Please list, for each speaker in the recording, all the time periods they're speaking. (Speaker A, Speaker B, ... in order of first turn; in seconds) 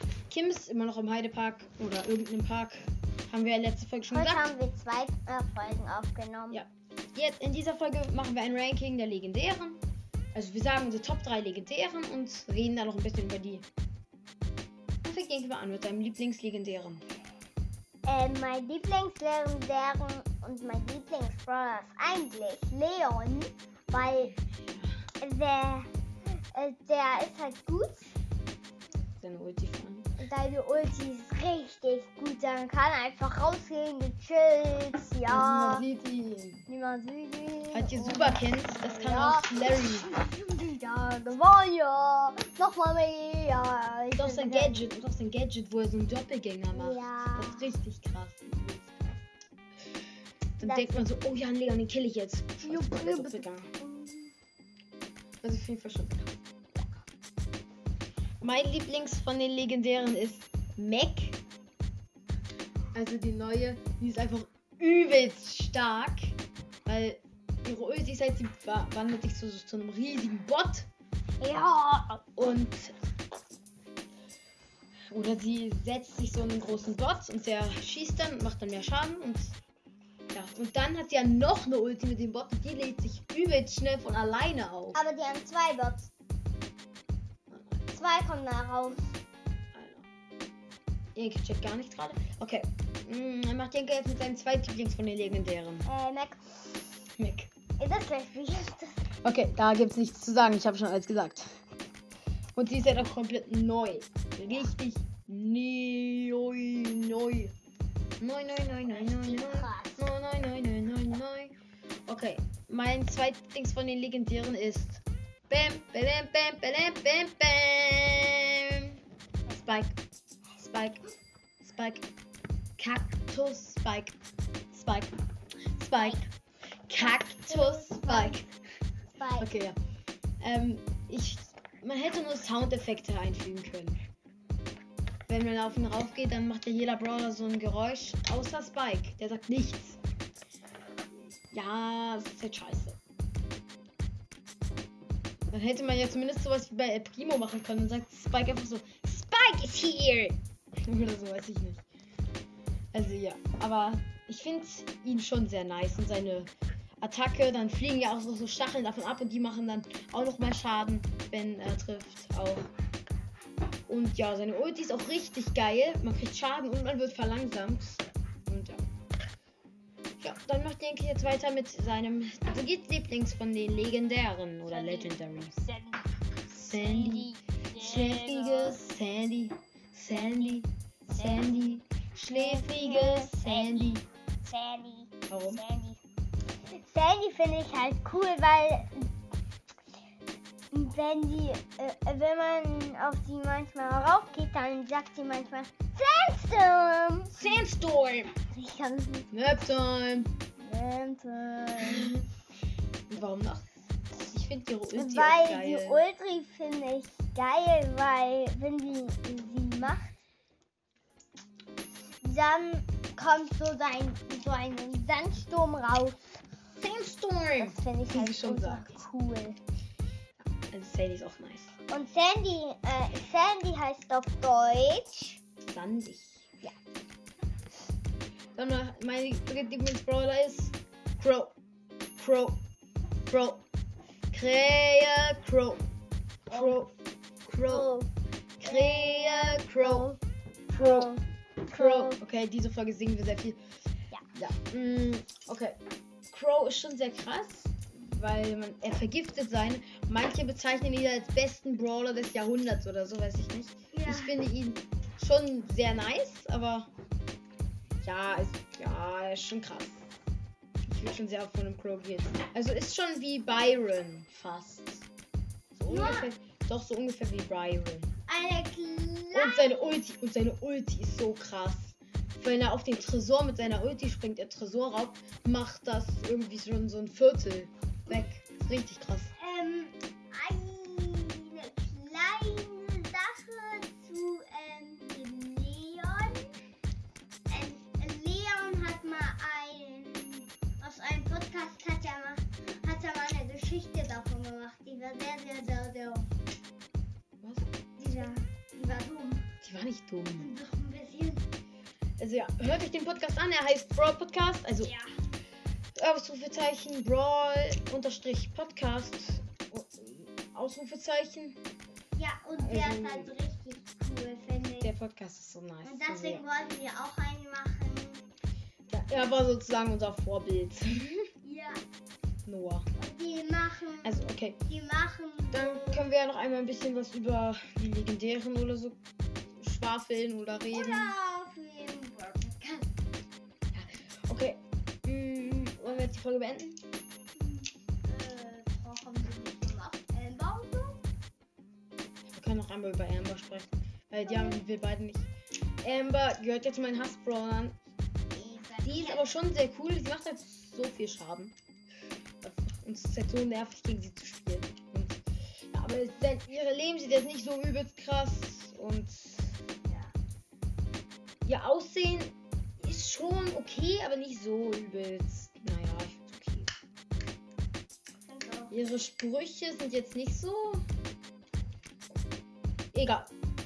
Speaker A: 0.3-4.5, 6.5-9.8, 10.3-13.6, 15.0-17.0, 24.0-24.9, 29.2-30.1, 35.3-36.6, 37.7-40.1, 44.1-49.1, 50.6-53.7, 55.4-56.3, 58.4-61.4, 62.9-70.9, 72.3-72.9, 75.1-79.5, 80.3-85.0, 87.5-87.8, 89.7-90.1, 91.2-95.8, 97.2-97.5, 99.2-101.6, 102.5-107.5, 108.2-111.5, 112.1-118.9, 119.5-120.0, 120.5-121.0, 121.6-122.0, 122.8-124.2, 124.7-125.1, 125.8-126.2, 126.9-128.5, 129.4-129.8, 130.4-134.0, 135.3-140.0, 141.5-143.0, 145.5-151.8, 152.9-156.5, 157.0-162.7, 163.9-168.8, 170.2-175.6, 176.5-184.0, 185.3-185.6, 197.3-198.3, 199.3-200.3, 201.8-202.2, 203.1-203.7, 204.3-206.1, 216.8-219.0, 220.7-221.7, 225.7-226.5, 228.5-231.5, 232.2-232.6, 233.3-233.6, 234.3-235.8, 236.5-236.9, 237.4-237.9, 238.6-240.1, 240.7-241.1, 241.6-243.6, 244.3-245.8, 246.3-256.9, 258.0-260.1, 260.9-265.1, 265.7-268.1, 269.3-279.3, 297.4-297.7, 299.6-300.5, 302.2-304.9, 305.9-311.6, 312.6-313.4, 314.8-316.4, 318.9-321.2, 322.4-322.9, 324.0-324.6, 325.5-331.1, 333.7-336.8, 342.3-345.3, 345.8-347.8, 348.8-351.6, 352.4-359.6, 361.4-366.7, 368.7-370.8, 372.9-373.3
Speaker B: 4.1-6.6, 18.1-24.3, 25.2-25.9, 26.5-28.1, 30.2-35.8, 36.7-44.8, 46.7-47.7, 50.6-51.0, 52.6-54.3, 71.4-72.2, 84.9-86.1, 87.9-89.0, 95.8-96.8, 97.8-99.0, 108.8-110.0, 126.0-126.3, 127.0-128.4, 129.2-129.5, 174.6-176.1, 176.6-178.8, 181.1-181.7, 182.3-186.0, 186.7-189.1, 190.7-197.5, 198.5-199.3, 200.6-202.1, 204.9-210.2, 212.2-216.3, 217.6-219.6, 221.9-225.4, 236.5-236.8, 237.7-238.1, 238.6-240.2, 240.7-242.2, 253.9-254.3, 265.9-266.3, 268.3-269.7, 279.4-286.5, 287.5-296.3, 298.0-299.4, 300.4-301.4, 304.8-305.1, 312.1-314.9, 315.8-318.2, 321.4-321.8, 323.0-326.0, 330.7-332.9, 337.4-341.0, 344.2-344.6, 348.3-349.4, 359.9-360.1, 368.2-368.7